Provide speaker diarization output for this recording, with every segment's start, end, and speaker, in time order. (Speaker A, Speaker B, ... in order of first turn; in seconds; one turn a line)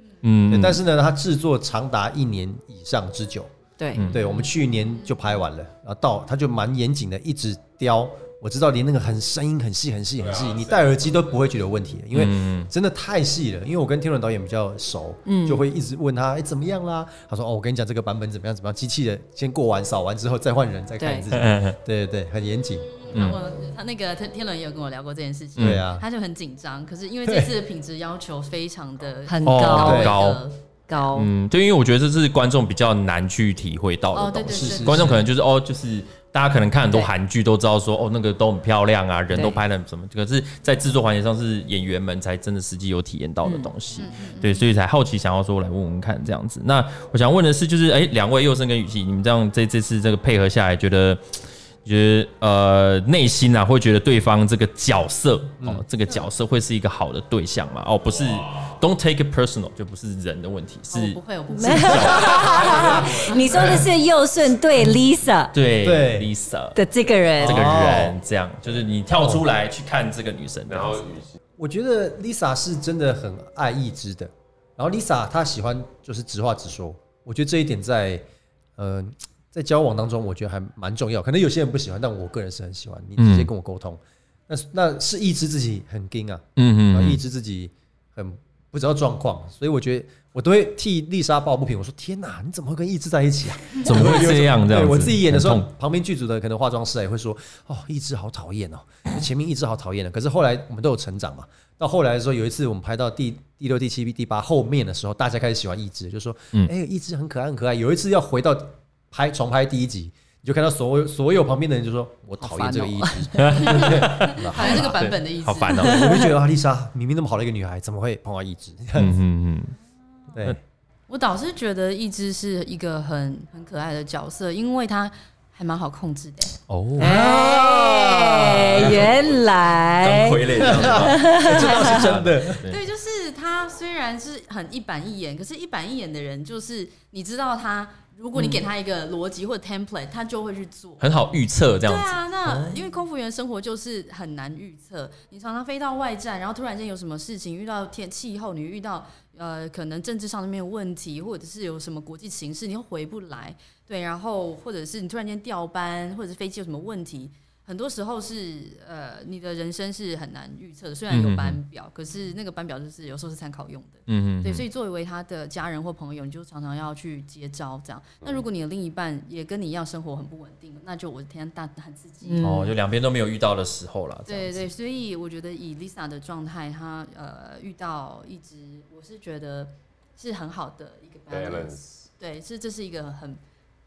Speaker A: 0.2-0.8
Speaker B: 0.5-3.5
Speaker C: 3.8-4.1
Speaker A: 3.9-4.2
Speaker B: 4.1-23.1
Speaker D: 10.2-11.4
Speaker A: 12.1-12.7
Speaker C: 15.2-15.6
Speaker C: 21.0-21.3
Speaker A: 21.3-21.8
Speaker E: 23.1-31.0
Speaker A: 23.1-23.4
Speaker A: 25.6-25.8
Speaker B: 25.6-26.1
Speaker C: 29.3-30.1
Speaker A: 29.4-30.4
Speaker B: 29.7-30.1
Speaker C: 30.9-31.3
Speaker A: 31.1-63.0
Speaker E: 34.1-35.1
Speaker B: 34.5-35.2
Speaker C: 39.3-39.6
Speaker C: 43.4-43.7
Speaker E: 44.0-44.6
Speaker D: 58.3-58.7
Speaker E: 60.9-63.7
Speaker C: 61.5-65.5
Speaker D: 62.4-63.5
Speaker A: 65.5-66.8
Speaker B: 65.8-66.3
Speaker C: 66.7-67.8
Speaker B: 67.4-68.2
Speaker A: 67.4-71.0
Speaker D: 70.7-71.4
Speaker B: 71.6-78.2
Speaker B: 78.8-114.9
Speaker A: 83.2-83.5
Speaker A: 86.6-87.2
Speaker A: 93.7-95.7
Speaker C: 112.4-113.9
Speaker A: 113.3-116.3
Speaker E: 113.5-115.8
Speaker B: 115.8-119.1
Speaker C: 115.9-116.3
Speaker A: 118.9-119.7
Speaker B: 120.3-120.6
Speaker E: 121.1-126.6
Speaker A: 126.7-127.2
Speaker C: 127.0-132.1
Speaker B: 127.0-129.1
Speaker A: 128.6-129.2
Speaker A: 129.9-132.8
Speaker B: 130.6-132.6
Speaker E: 132.6-141.1
Speaker A: 141.0-142.7
Speaker E: 141.8-172.5
Speaker A: 161.1-161.6
Speaker A: 164.1-164.6
Speaker C: 172.2-172.7
Speaker A: 172.4-174.7
Speaker E: 174.3-183.4
Speaker D: 181.3-182.0